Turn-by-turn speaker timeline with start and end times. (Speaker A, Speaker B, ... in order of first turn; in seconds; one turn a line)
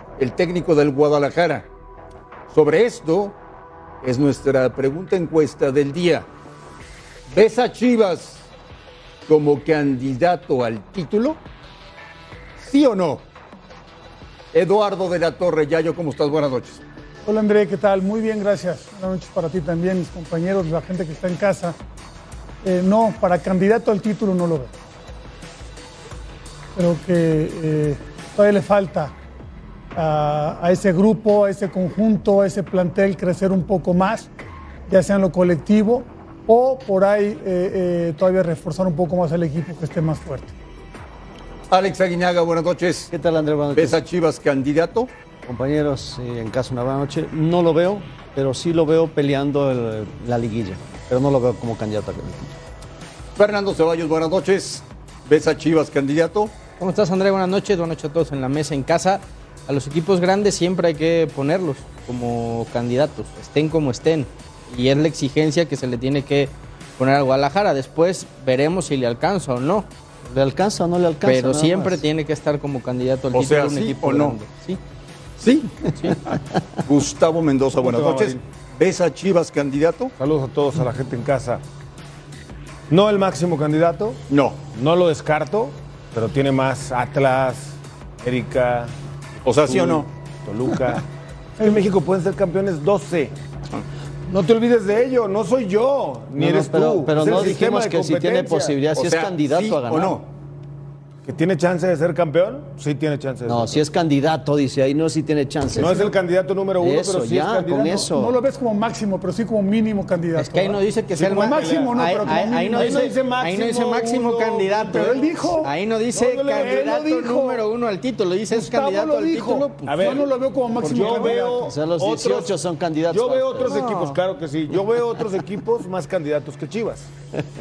Speaker A: 0.2-1.7
Speaker A: 2.5-3.4
Speaker A: 4.0-6.3
Speaker A: 7.3-8.5
Speaker A: 9.3-11.4
Speaker A: 12.6-13.2
Speaker A: 14.5-16.8
Speaker B: 17.2-21.8
Speaker B: 22.6-24.7
Speaker B: 26.8-29.1
Speaker B: 29.9-34.3
Speaker B: 34.9-40.5
Speaker A: 41.7-43.1
Speaker C: 43.1-44.0
Speaker A: 43.8-45.1
Speaker C: 45.5-52.6
Speaker A: 53.4-56.6
Speaker D: 56.8-69.9
Speaker C: 70.2-72.0
Speaker D: 71.2-74.8
Speaker A: 73.3-74.4
Speaker A: 75.4-75.9
Speaker A: 76.8-80.1
Speaker E: 77.8-78.4
Speaker E: 80.2-81.6
Speaker E: 82.9-88.9
Speaker A: 84.3-84.6
Speaker A: 89.5-90.1
Speaker E: 89.6-91.0
Speaker E: 91.6-93.3
Speaker E: 94.3-98.8
Speaker C: 96.3-100.2
Speaker A: 98.9-100.3
Speaker E: 101.2-103.8
Speaker C: 103.4-106.1
Speaker E: 105.8-108.1
Speaker C: 106.8-108.4
Speaker B: 108.1-113.1
Speaker D: 110.3-120.2
Speaker E: 111.2-115.5
Speaker B: 114.8-115.7
Speaker E: 116.1-117.3
Speaker B: 116.5-117.6
Speaker B: 118.5-121.7
Speaker E: 119.9-122.6
Speaker C: 121.7-124.0
Speaker E: 123.1-127.1
Speaker D: 123.8-124.2